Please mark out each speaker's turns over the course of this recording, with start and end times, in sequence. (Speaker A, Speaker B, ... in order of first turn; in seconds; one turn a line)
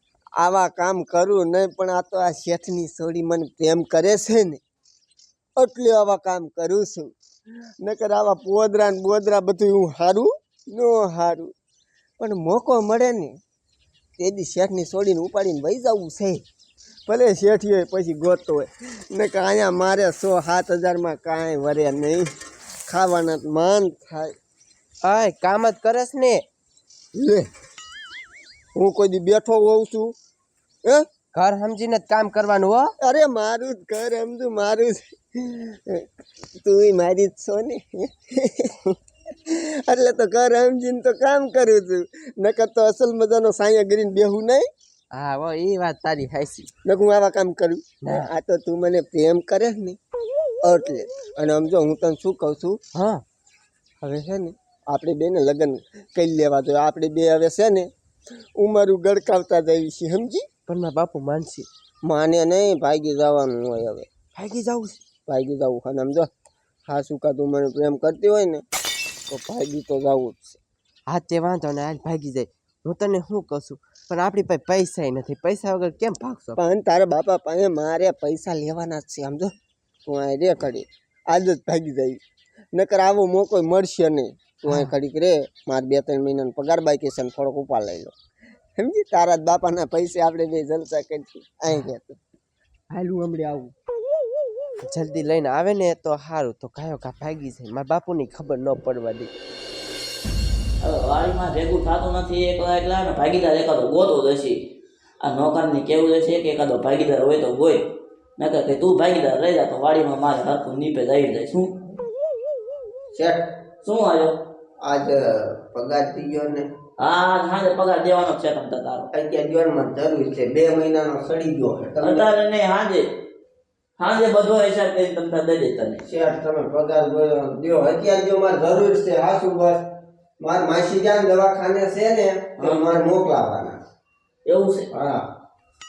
Speaker A: 0.4-4.6
Speaker A: 5.5-7.1
Speaker A: 7.8-11.5
Speaker A: 12.2-13.4
Speaker A: 14.2-16.4
Speaker A: 17.1-22.2
Speaker A: 22.9-24.3
Speaker B: 25.0-26.4
Speaker A: 27.1-27.5
Speaker A: 28.8-30.1
Speaker B: 31.3-32.9
Speaker A: 33.0-36.0
Speaker A: 36.6-39.0
Speaker A: 39.5-44.7
Speaker B: 45.1-46.7
Speaker A: 46.8-50.0
Speaker B: 48.0-48.3
Speaker A: 50.6-52.8
Speaker B: 52.9-53.2
Speaker A: 54.0-57.9
Speaker A: 58.6-60.4
Speaker B: 60.7-61.7
Speaker A: 62.0-64.1
Speaker B: 64.3-65.0
Speaker A: 65.2-66.3
Speaker A: 66.9-68.6
Speaker A: 69.3-70.6
Speaker B: 71.1-76.6
Speaker A: 76.6-79.5
Speaker A: 80.0-82.2
Speaker A: 82.7-88.1
Speaker A: 88.8-92.2
Speaker A: 92.9-93.7
Speaker B: 94.8-99.3
Speaker C: 100.8-104.5
Speaker C: 105.2-107.8
Speaker C: 108.4-111.7
Speaker A: 113.1-113.4
Speaker C: 113.8-114.3
Speaker A: 114.8-116.7
Speaker C: 117.0-119.1
Speaker A: 119.1-122.3
Speaker C: 122.0-123.0
Speaker C: 124.0-126.0
Speaker A: 126.0-129.8
Speaker A: 130.4-133.8
Speaker C: 132.6-132.8
Speaker C: 134.4-134.8
Speaker A: 134.9-135.2